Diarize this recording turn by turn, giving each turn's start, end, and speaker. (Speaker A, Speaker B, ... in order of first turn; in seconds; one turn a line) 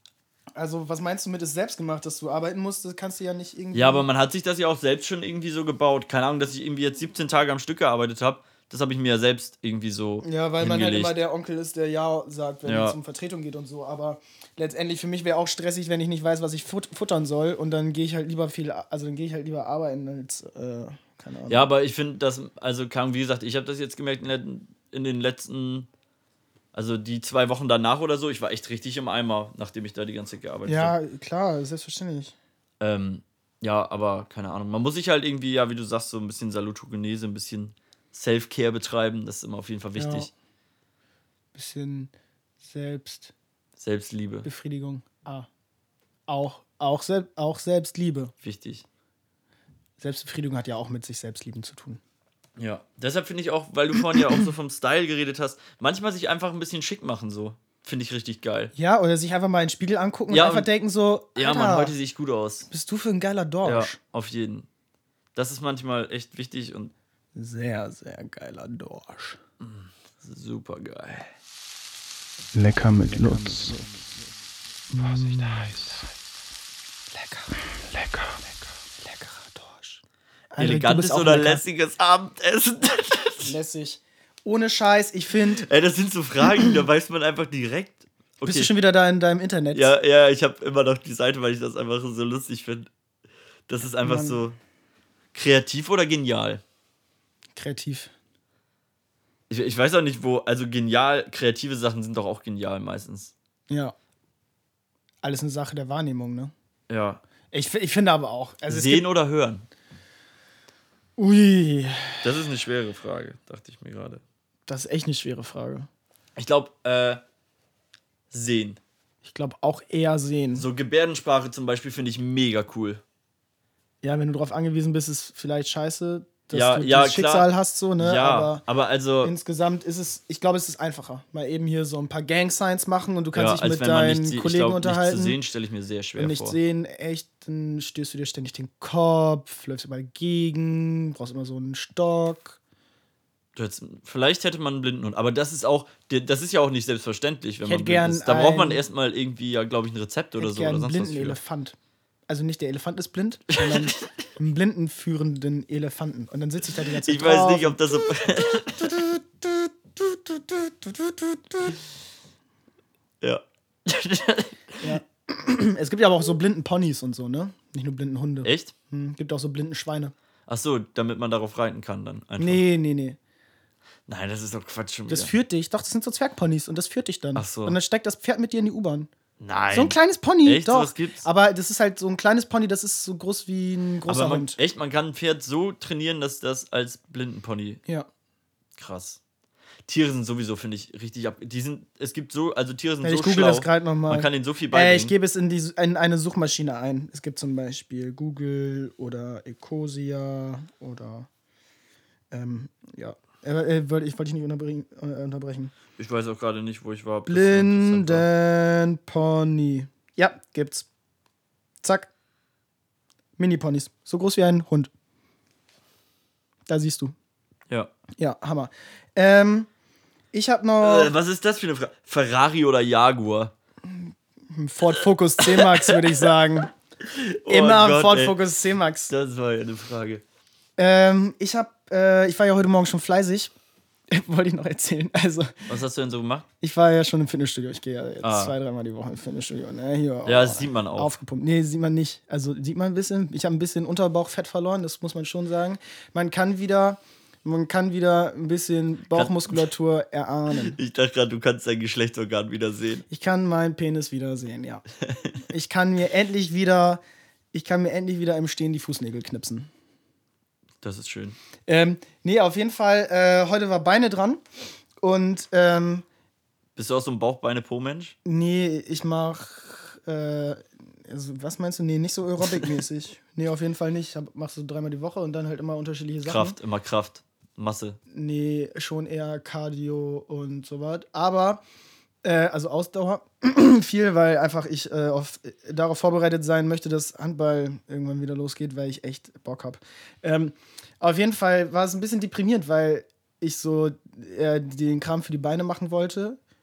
Speaker A: 0.6-4.0
Speaker B: 3.7-11.1
Speaker A: 10.2-21.7
Speaker B: 12.6-13.0
Speaker B: 21.5-25.9
Speaker B: 26.7-30.9
Speaker A: 30.6-32.3
Speaker B: 32.8-40.3
Speaker A: 40.0-40.3
Speaker A: 41.5-43.3
Speaker B: 43.8-44.5
Speaker A: 44.4-45.5
Speaker A: 46.3-48.3
Speaker B: 48.4-48.8
Speaker A: 50.0-52.0
Speaker B: 52.6-58.7
Speaker A: 58.7-61.9
Speaker B: 60.3-60.7
Speaker B: 61.4-62.7
Speaker A: 62.7-64.0
Speaker B: 63.6-64.7
Speaker B: 65.3-66.9
Speaker A: 67.3-69.4
Speaker B: 69.6-71.3
Speaker A: 72.5-73.8
Speaker C: 72.6-73.9
Speaker C: 74.9-76.1
Speaker A: 74.9-75.7
Speaker A: 77.1-77.6
Speaker C: 77.7-78.6
Speaker A: 79.0-80.0
Speaker A: 80.5-81.6
Speaker B: 80.6-83.5
Speaker A: 83.4-85.6
Speaker B: 85.5-88.7
Speaker A: 88.4-89.9
Speaker B: 89.7-92.9
Speaker B: 93.7-94.6
Speaker A: 94.0-94.4
Speaker B: 95.3-96.6
Speaker A: 97.5-98.1
Speaker B: 99.5-103.3
Speaker A: 105.2-106.5
Speaker B: 106.9-107.2
Speaker A: 107.5-109.0
Speaker B: 108.7-109.7
Speaker A: 111.2-112.3
Speaker B: 112.2-114.2
Speaker A: 114.7-115.9
Speaker B: 116.3-117.2
Speaker B: 118.3-118.8
Speaker A: 119.2-120.7
Speaker B: 120.5-123.0
Speaker A: 124.0-128.6
Speaker B: 126.5-129.3
Speaker A: 129.2-135.4
Speaker B: 133.3-136.6
Speaker A: 136.2-142.6
Speaker B: 143.6-151.4
Speaker A: 147.6-148.8
Speaker A: 150.4-151.8
Speaker A: 152.3-159.1
Speaker B: 153.5-154.0
Speaker B: 157.0-159.0
Speaker A: 160.9-161.2
Speaker B: 163.2-165.0
Speaker A: 164.8-170.1
Speaker B: 168.4-168.7
Speaker B: 170.5-172.6
Speaker A: 172.4-173.2
Speaker B: 174.1-175.3
Speaker A: 175.1-179.1
Speaker B: 177.3-177.8
Speaker B: 179.4-181.2
Speaker A: 179.7-184.6
Speaker B: 184.1-187.8
Speaker B: 188.8-189.2
Speaker B: 189.8-195.1
Speaker A: 193.0-201.3
Speaker A: 202.3-205.7
Speaker B: 206.0-208.2
Speaker A: 207.3-210.9
Speaker A: 211.8-212.1
Speaker A: 213.4-214.9
Speaker A: 216.7-217.1
Speaker A: 218.2-219.7
Speaker A: 220.3-221.1
Speaker B: 220.8-223.5
Speaker A: 223.8-226.7
Speaker B: 225.4-226.2
Speaker B: 227.0-228.4
Speaker A: 227.5-229.1
Speaker B: 229.1-230.2
Speaker A: 230.8-233.5
Speaker A: 234.1-235.7
Speaker B: 235.7-236.5
Speaker A: 236.6-250.8
Speaker B: 238.2-238.5
Speaker B: 240.2-241.2
Speaker B: 249.1-249.7
Speaker B: 250.6-253.0
Speaker A: 253.1-254.8
Speaker A: 255.5-257.0
Speaker A: 257.5-259.7
Speaker B: 260.8-261.4
Speaker A: 261.7-264.4
Speaker A: 265.0-266.0
Speaker B: 266.8-268.1
Speaker A: 268.2-276.6
Speaker B: 276.2-278.0
Speaker A: 278.1-281.6
Speaker A: 282.2-296.4